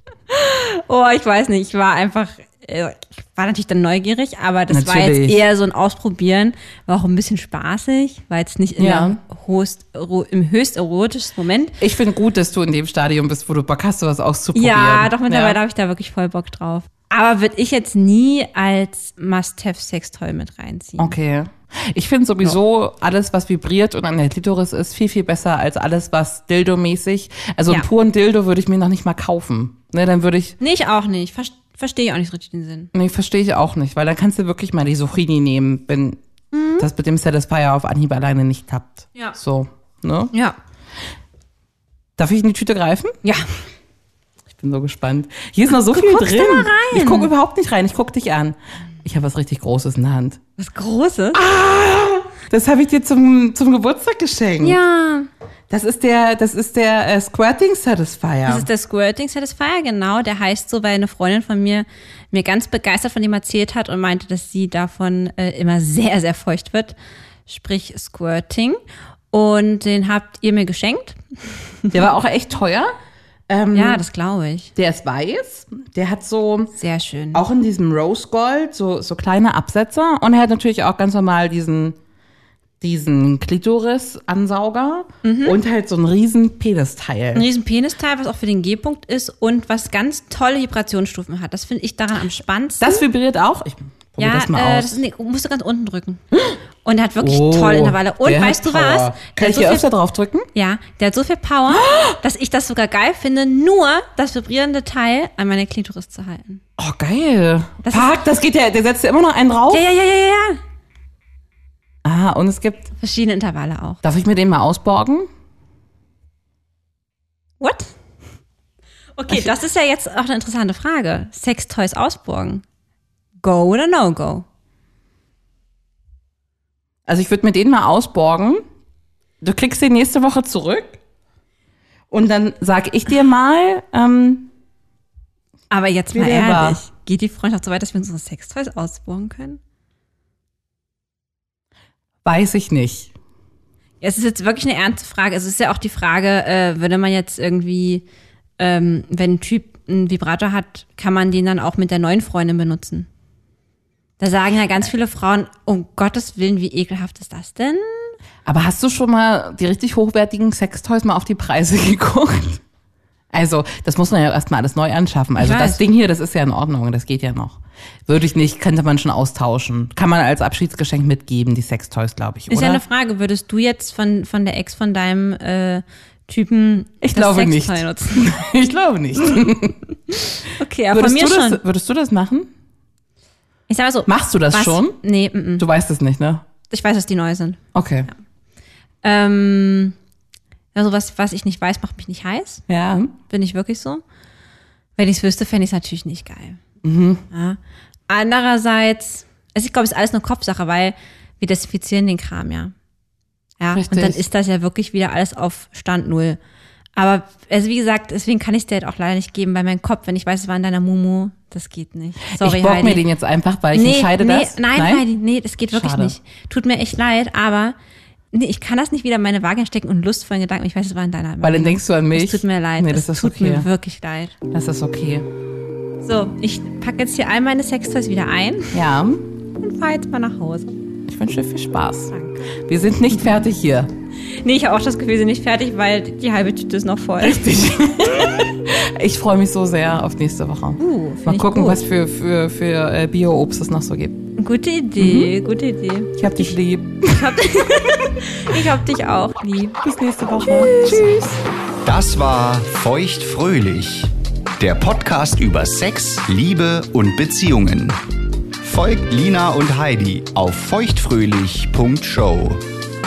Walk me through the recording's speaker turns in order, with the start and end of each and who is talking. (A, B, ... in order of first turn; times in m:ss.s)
0:00.3-0:11.8 A
0:04.7-0:05.4 B
0:08.8-0:09.2 B
0:11.8-0:15.6 B
0:14.6-0:21.2 A
0:21.0-0:30.6 B
0:30.6-0:32.9 A
0:32.9-0:36.2 B
0:36.5-0:36.9 A
0:36.8-0:40.3 B
0:42.2-0:43.1 B
0:44.5-0:50.4 B
0:45.7-0:47.3 A
0:50.6-0:51.4 A
0:51.3-0:54.8 B
0:54.6-0:55.3 A
0:55.7-0:58.7 B
0:58.4-1:07.0 A
1:07.5-1:08.8 A
1:09.3-1:12.0 A
1:11.9-1:12.9 B
1:13.5-1:14.0 B
1:13.7-1:14.7 A
1:14.8-1:16.8 B
1:16.8-1:17.4 A
1:17.3-1:22.0 B
1:22.8-1:27.5 B
1:25.2-1:25.6 A
1:27.3-1:33.0 A
1:32.8-1:35.0 B
1:34.2-1:36.2 A
1:36.8-1:39.8 A
1:37.2-1:40.5 B
1:40.5-1:46.6 A
1:41.7-1:42.2 B
1:46.8-1:49.8 B
1:47.8-1:48.1 A
1:49.7-1:50.6 A
1:52.0-1:52.9 B
1:53.0-1:54.0 A
1:54.0-1:55.3 B
1:57.6-1:57.9 A
1:59.2-2:02.6 A
2:03.4-2:04.4 A
2:07.1-2:08.6 B
2:09.4-2:11.0 B
2:12.1-2:14.5 B
2:15.7-2:19.6 A
2:16.1-2:16.8 B
2:22.2-2:23.1 B
2:24.0-2:28.0 A
2:28.6-2:33.1 A
2:34.2-2:38.2 A
2:38.4-2:42.6 B
2:43.3-2:52.8 B
2:45.4-2:45.8 A
2:52.5-2:58.3 A
2:57.1-2:59.8 B
3:00.3-3:01.6 A
3:00.9-3:02.5 B
3:03.7-3:05.7 A
3:04.1-3:05.0 B
3:05.6-3:06.4 B
3:06.7-3:07.6 A
3:07.7-3:08.1 B
3:09.0-3:10.0 A
3:10.8-3:12.6 A
3:12.7-3:13.2 B
3:13.3-3:14.0 A
3:15.0-3:16.6 A
3:16.8-3:17.2 B
3:17.3-3:17.6 A
3:18.1-3:22.7 A
3:23.6-3:26.4 A
3:23.7-3:24.2 B
3:27.0-3:33.0 A
3:32.3-3:35.0 B
3:33.7-3:37.8 A
3:35.7-3:36.2 B
3:38.3-3:44.4 A
3:41.4-3:43.7 B
3:44.5-3:45.3 B
3:46.0-3:48.8 A
3:48.7-3:49.3 B
3:49.6-3:50.8 A
3:51.1-3:53.9 B
3:52.1-3:52.5 A
3:54.4-3:57.6 A
3:57.2-4:04.3 B
4:00.8-4:01.8 A
4:04.4-4:06.5 A
4:05.0-4:05.3 B
4:06.2-4:07.4 B
4:07.1-4:09.8 A
4:09.8-4:11.4 B
4:10.4-4:11.2 A
4:11.8-4:18.0 C
4:18.6-4:22.6 C